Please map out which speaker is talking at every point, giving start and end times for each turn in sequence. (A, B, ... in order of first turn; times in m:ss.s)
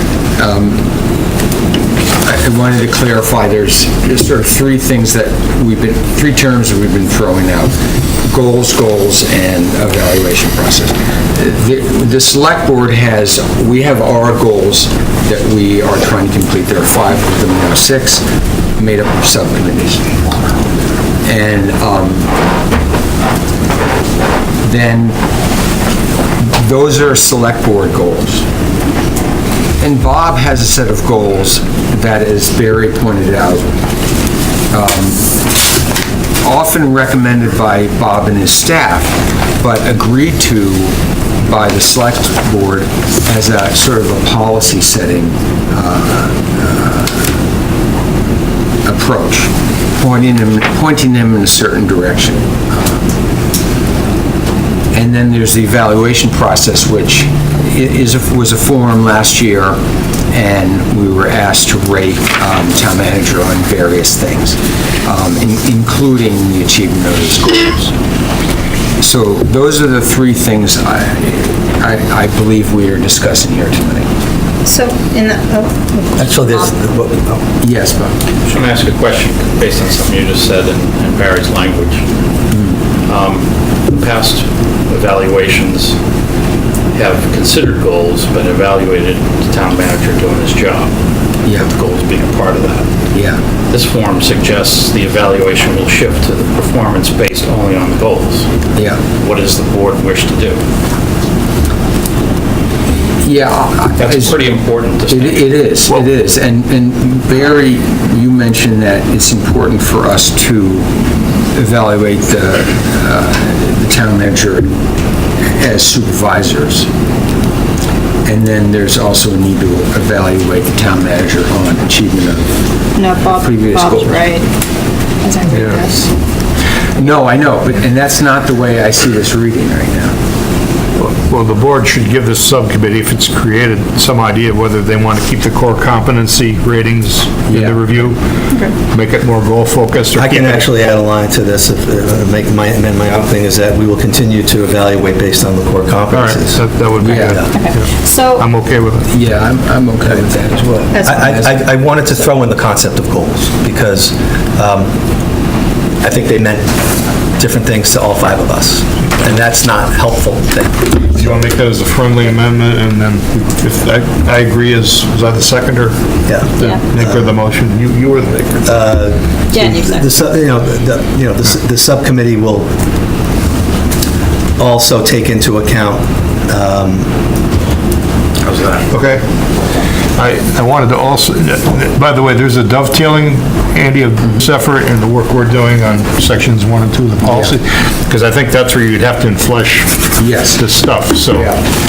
0:00.4-0:00.8 A
0:02.2-0:18.2 A
0:18.8-0:20.3 A
0:21.2-0:22.3 A
0:24.6-0:25.2 A
0:26.4-0:28.4 A
0:29.8-0:33.7 A
0:34.7-0:35.3 A
0:36.4-0:47.3 A
0:48.8-0:53.0 A
0:54.9-0:59.8 A
1:00.3-1:07.9 A
1:09.0-1:14.1 A
1:14.6-1:16.7 B
1:16.2-1:17.4 C
1:17.6-1:18.2 A
1:18.4-1:22.0 D
1:22.5-1:22.8 A
1:23.0-1:25.9 D
1:26.9-1:30.9 D
1:31.5-1:32.9 D
1:33.1-1:33.4 A
1:33.7-1:38.5 D
1:38.7-1:39.0 A
1:39.1-1:40.6 D
1:43.2-1:44.4 A
1:44.0-1:45.4 D
1:45.1-1:54.7 A
1:55.4-1:56.9 A
1:58.2-2:02.6 A
2:02.9-2:04.5 B
2:03.2-2:04.4 A
2:05.2-2:06.1 B
2:05.5-2:06.0 A
2:06.9-2:10.1 A
2:11.0-2:18.2 E
2:17.5-2:18.0 A
2:18.9-2:20.6 E
2:20.1-2:26.6 C
2:26.1-2:29.1 E
2:27.0-2:27.5 A
2:27.5-2:28.4 B
2:29.1-2:31.6 A
2:30.9-2:31.3 B
2:31.0-2:34.9 C
2:36.0-2:36.7 C
2:37.4-2:41.4 C
2:41.3-2:46.0 E
2:46.2-2:47.3 C
2:46.6-2:48.6 E
2:48.6-2:52.7 C
2:49.5-2:50.2 B
2:54.6-2:57.1 C
2:58.4-2:58.9 D
2:58.9-2:59.2 E
3:00.2-3:11.5 E
3:07.2-3:07.6 A
3:10.2-3:10.6 A
3:11.3-3:11.6 A